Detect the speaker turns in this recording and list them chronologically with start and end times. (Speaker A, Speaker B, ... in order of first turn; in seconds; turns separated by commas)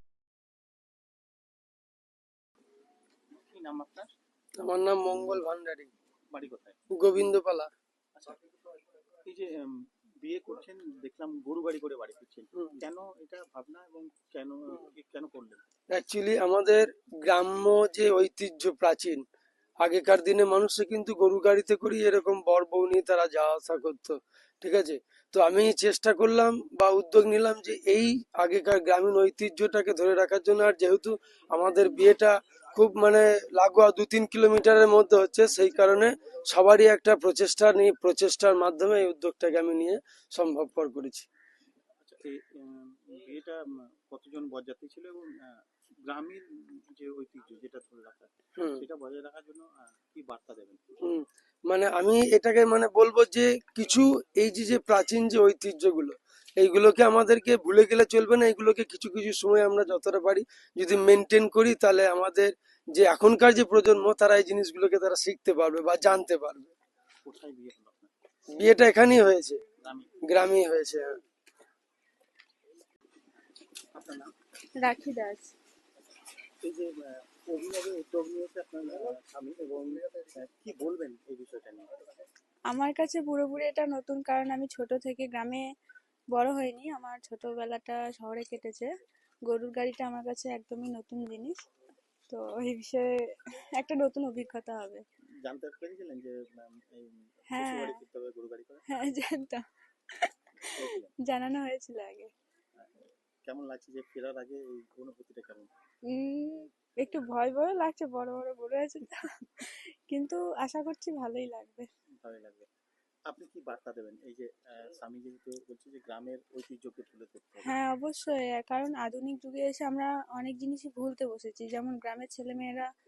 Speaker A: 3.4-4.1, Speaker B: 4.6-5.9, Speaker A: 5.1-5.4, Speaker A: 6.3-6.8, Speaker B: 6.9-7.7, Speaker A: 8.2-8.4, Speaker A: 9.2-9.7, Speaker A: 10.2-15.6, Speaker B: 15.9-19.2, Speaker B: 19.8-41.2, Speaker A: 42.0-51.0, Speaker B: 48.6-48.8, Speaker B: 51.0-66.7, Speaker A: 67.2-68.1, Speaker B: 68.5-69.6, Speaker A: 69.8-70.2, Speaker B: 70.3-71.1, Speaker A: 73.9-74.3, Speaker C: 74.8-75.5, Speaker A: 76.6-81.9, Speaker C: 82.7-85.6, Speaker C: 86.3-88.9, Speaker C: 89.5-91.5, Speaker C: 92.3-95.0, Speaker A: 95.4-99.1, Speaker C: 97.5-98.0, Speaker C: 98.9-100.4, Speaker A: 100.7-101.1, Speaker C: 101.2-102.3, Speaker A: 102.8-105.7, Speaker C: 106.1-111.9, Speaker A: 112.2-112.7, Speaker A: 113.3-117.8, Speaker C: 117.6-122.9